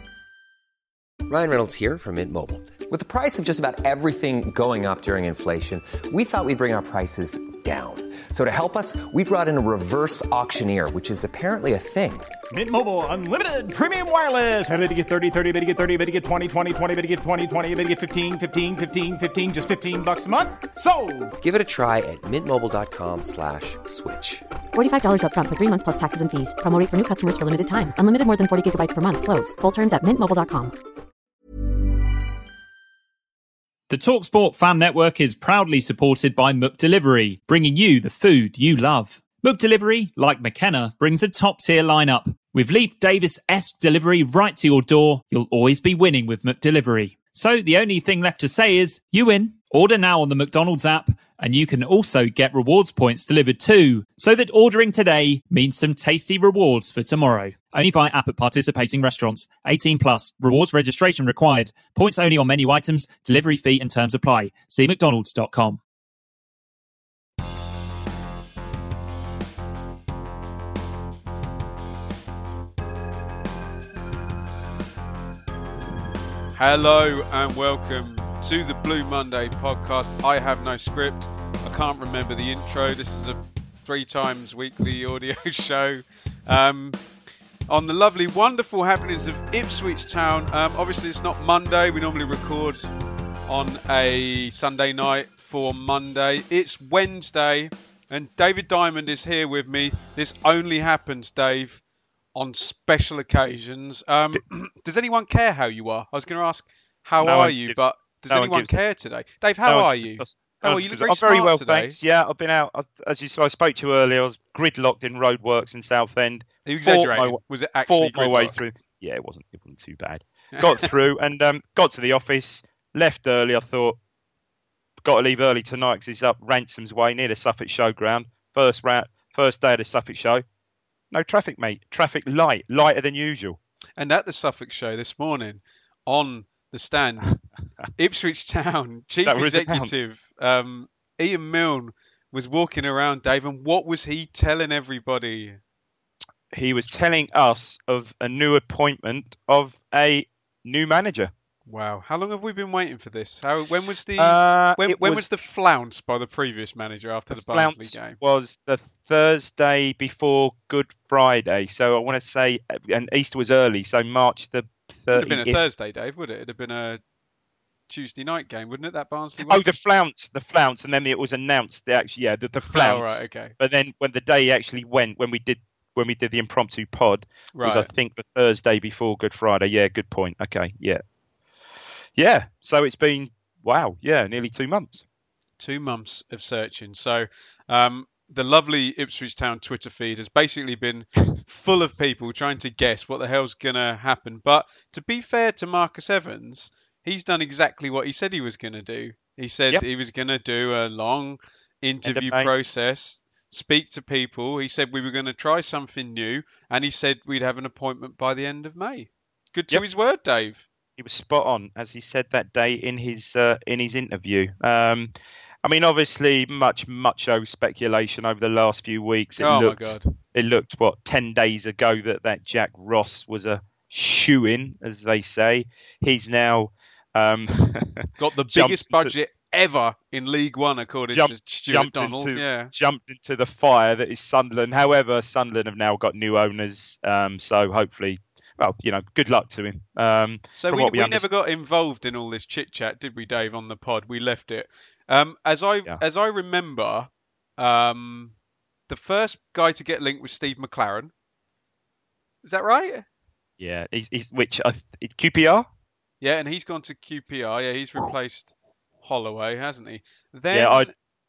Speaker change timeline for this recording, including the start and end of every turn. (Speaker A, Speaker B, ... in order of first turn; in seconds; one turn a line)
Speaker A: 1.3-12.3
Speaker B: 12.5-21.3
Speaker A: 21.4-24.5
Speaker C: 24.7-30.7
Speaker D: 33.9-65.8
Speaker E: 76.5-87.0
Speaker E: 87.7-92.9
Speaker E: 93.5-101.8
Speaker E: 102.3-112.0
Speaker F: 107.2-108.8
Speaker F: 109.7-124.0
Speaker E: 116.7-118.6
Speaker E: 120.5-120.9
Speaker F: 125.0-130.4
Speaker F: 131.1-133.6
Speaker E: 134.0-137.4
Speaker E: 138.0-145.6
Speaker F: 139.2-139.9
Speaker F: 146.5-151.3
Speaker E: 151.7-158.2
Speaker F: 154.2-155.3
Speaker F: 157.3-165.6
Speaker E: 165.1-167.0
Speaker E: 167.9-169.7
Speaker F: 169.4-181.0
Speaker E: 172.7-173.5
Speaker E: 177.6-177.9
Speaker F: 182.2-185.0
Speaker E: 185.6-210.7
Speaker F: 202.1-202.5
Speaker F: 211.0-215.1
Speaker F: 215.6-229.1
Speaker E: 219.4-220.1
Speaker E: 228.2-232.7
Speaker F: 231.1-241.3
Speaker E: 240.6-248.3
Speaker E: 248.9-251.1
Speaker E: 252.4-253.1
Speaker F: 253.6-255.7
Speaker E: 256.2-260.9
Speaker F: 260.5-260.9